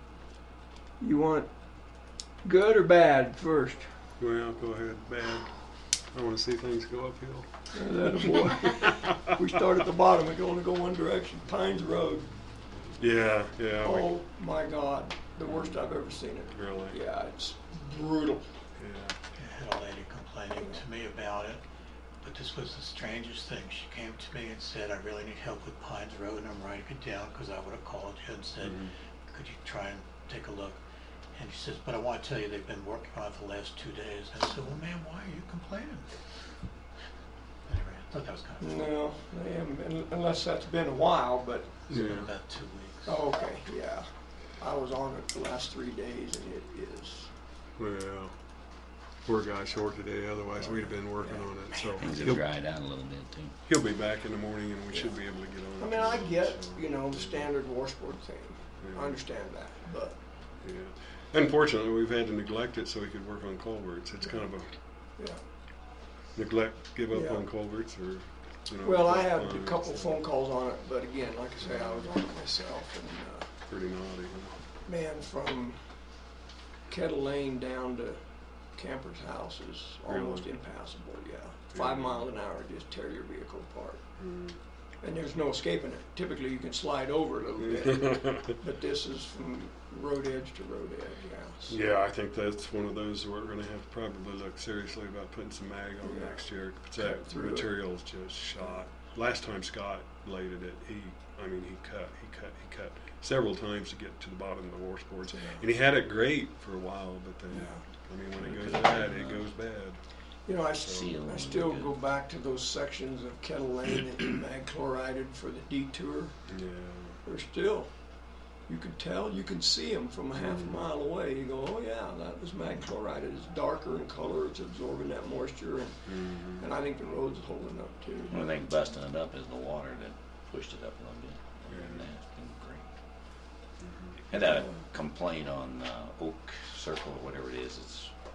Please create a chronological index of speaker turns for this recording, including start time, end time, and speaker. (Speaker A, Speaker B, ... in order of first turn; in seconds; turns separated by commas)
Speaker A: 1.0-1.5, Speaker A: 2.4-3.9, Speaker B: 4.2-5.5, Speaker B: 6.1-9.1, Speaker A: 7.7-12.3, Speaker B: 13.0-14.1, Speaker A: 13.8-18.5, Speaker B: 15.4-15.8, Speaker B: 16.5-17.0, Speaker B: 18.8-19.2, Speaker C: 19.4-21.6, Speaker C: 22.2-30.8, Speaker B: 28.6-28.9, Speaker C: 31.3-36.2, Speaker C: 37.7-38.9, Speaker A: 38.6-41.8, Speaker C: 41.9-43.2, Speaker B: 41.9-42.3, Speaker A: 43.0-44.0, Speaker A: 44.6-47.3, Speaker B: 47.8-48.3, Speaker B: 49.2-52.4, Speaker A: 50.6-52.0, Speaker D: 52.0-53.5, Speaker B: 53.7-57.5, Speaker A: 55.8-60.1, Speaker B: 58.8-59.2, Speaker B: 60.6-64.7, Speaker B: 66.3-70.2, Speaker A: 67.1-67.4, Speaker A: 68.8-73.5, Speaker B: 71.6-72.1, Speaker B: 73.7-74.6, Speaker A: 74.8-75.8, Speaker A: 76.9-78.2, Speaker A: 78.8-84.0, Speaker B: 80.1-80.5, Speaker B: 81.7-82.2, Speaker B: 84.2-84.6, Speaker A: 85.0-91.8, Speaker B: 87.8-88.5, Speaker B: 91.7-110.0, Speaker A: 96.0-96.4, Speaker A: 96.9-97.7, Speaker A: 107.5-107.8, Speaker D: 108.4-109.5, Speaker A: 110.5-116.4, Speaker B: 110.7-111.1, Speaker D: 110.9-112.0, Speaker B: 116.5-117.2, Speaker A: 117.2-117.9, Speaker A: 118.7-128.6, Speaker B: 120.3-120.8, Speaker B: 126.1-126.6, Speaker D: 128.3-132.9, Speaker B: 131.7-132.1, Speaker B: 133.8-134.2, Speaker D: 134.3-138.1